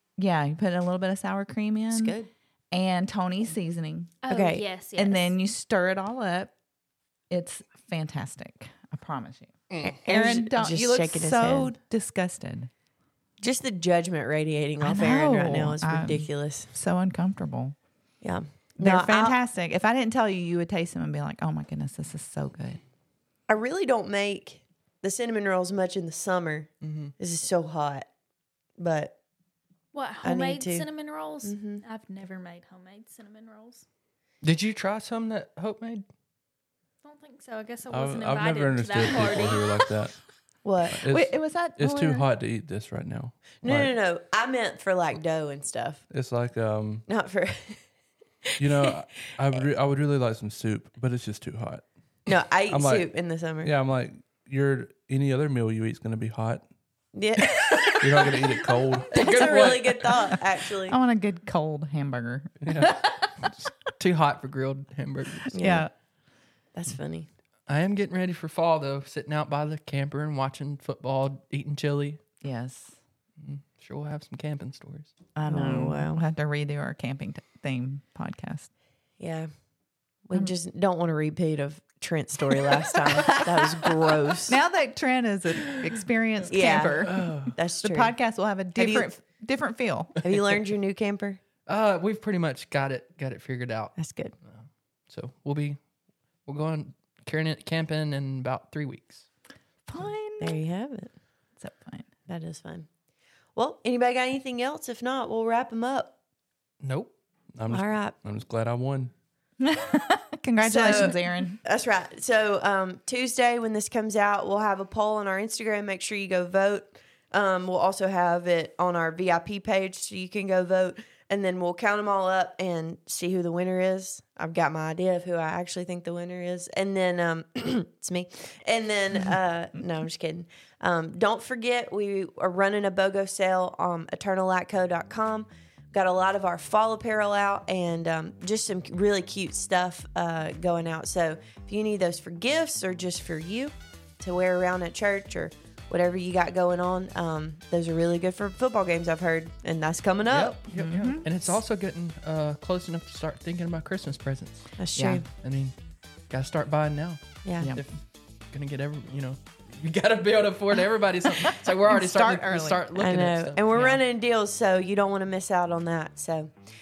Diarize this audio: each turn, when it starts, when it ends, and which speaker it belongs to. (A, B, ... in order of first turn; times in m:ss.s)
0:00.2-0:02.2 A
0:01.9-0:02.3 B
0:02.7-0:04.2 A
0:04.2-0:05.3 C
0:04.3-0:04.6 B
0:05.0-0:06.5 A
0:07.3-0:12.7 A
0:09.8-0:11.7 B
0:13.4-0:16.7 B
0:14.8-0:17.8 A
0:18.2-0:19.4 B
0:18.8-0:22.8 A
0:23.5-0:28.1 B
0:26.8-0:27.1 D
0:28.8-0:29.2 B
0:29.9-0:33.8 C
0:30.2-0:30.9 B
0:31.4-0:31.8 B
0:34.4-0:36.0 D
0:37.0-0:40.0 C
0:37.9-0:40.2 E
0:40.6-0:41.0 B
0:40.9-0:43.9 E
0:41.0-0:42.2 A
0:43.6-0:46.0 B
0:46.1-0:47.1 E
0:47.1-0:47.8 B
0:48.4-0:48.9 B
0:48.6-0:51.9 E
0:52.3-0:53.7 B
0:52.7-0:53.1 E
0:53.6-0:56.7 E
0:57.1-0:58.0 B
0:57.4-0:58.0 D
0:58.0-0:59.2 E
0:59.1-1:00.1 D
0:59.1-1:01.0 B
1:00.9-1:02.9 A
1:02.6-1:03.0 E
1:03.4-1:05.5 D
1:05.5-1:05.9 B
1:05.5-1:05.9 A
1:06.7-1:07.3 B
1:07.7-1:12.2 D
1:12.4-1:13.0 A
1:13.4-1:15.1 D
1:15.4-1:18.7 A
1:15.5-1:16.2 B
1:19.2-1:19.5 B
1:20.3-1:24.6 B
1:23.1-1:23.9 A
1:24.5-1:30.6 A
1:26.5-1:28.1 B
1:27.2-1:27.5 E
1:28.7-1:29.1 B
1:30.2-1:31.4 B
1:31.7-1:35.8 D
1:34.0-1:34.3 B
1:36.4-1:39.3 D
1:39.9-1:40.6 A
1:40.4-1:41.1 B
1:41.6-1:42.1 A
1:42.3-1:42.9 B
1:43.6-1:46.1 B
1:46.8-1:47.1 D
1:47.6-1:49.1 E
1:47.7-1:48.2 B
1:49.6-1:51.6 A
1:50.6-2:30.6 B
2:30.3-2:34.7 D
2:30.7-2:31.3 A
2:34.8-2:35.2 B
2:35.0-2:35.2 A
2:35.3-2:35.7 D
2:36.3-2:38.0 D
2:37.4-2:37.7 B
2:38.5-2:44.0 D
2:41.4-2:42.8 A
2:43.0-2:46.5 B